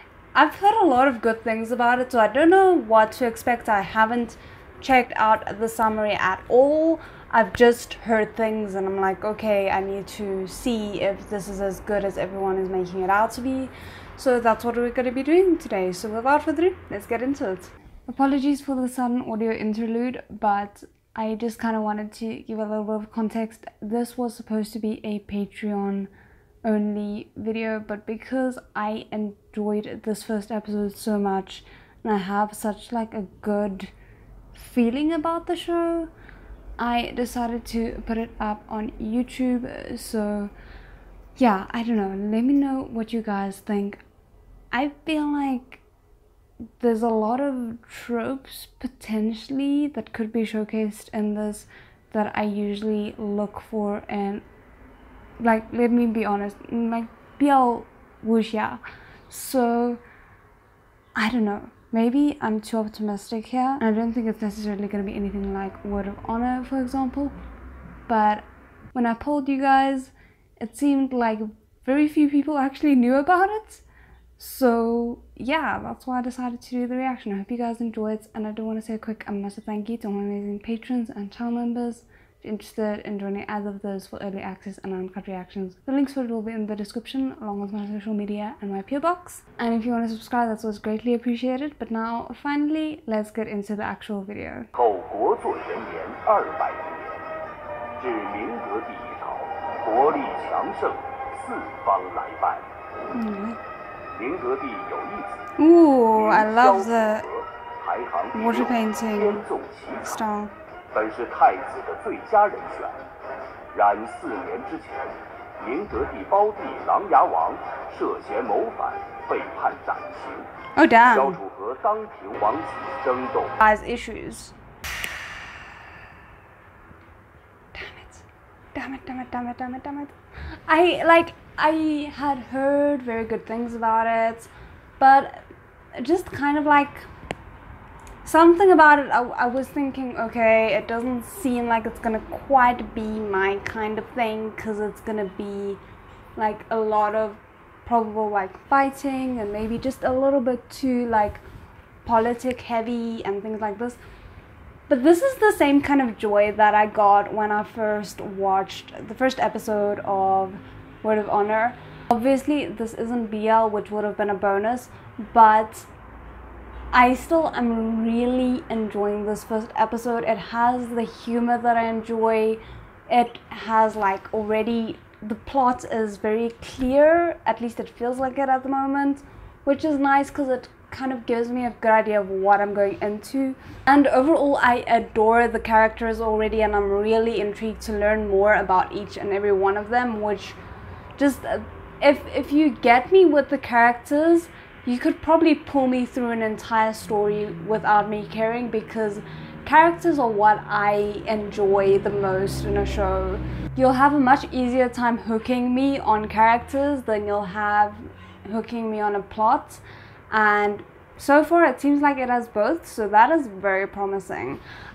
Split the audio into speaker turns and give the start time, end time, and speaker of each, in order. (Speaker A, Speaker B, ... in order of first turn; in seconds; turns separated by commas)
Speaker A: 0.3-26.1, Speaker A: 26.6-33.9, Speaker A: 34.5-36.1, Speaker A: 36.8-40.5, Speaker A: 41.4-44.0, Speaker A: 44.7-45.8, Speaker A: 46.8-54.5, Speaker A: 55.4-60.0, Speaker A: 61.2-67.3, Speaker A: 68.1-73.8, Speaker A: 74.4-94.7, Speaker B: 94.8-97.2, Speaker B: 98.0-102.7, Speaker A: 103.1-103.6, Speaker B: 104.1-105.4, Speaker A: 105.6-107.3, Speaker B: 106.1-110.2, Speaker A: 108.3-109.5, Speaker A: 110.0-110.5, Speaker B: 110.9-113.0, Speaker B: 113.7-120.5, Speaker A: 120.8-121.4, Speaker B: 121.0-123.6, Speaker A: 123.6-124.5, Speaker A: 127.7-137.1, Speaker A: 138.2-145.8, Speaker A: 146.4-151.4, Speaker A: 152.1-154.0, Speaker A: 154.9-165.9, Speaker A: 166.9-190.6, Speaker A: 191.2-214.6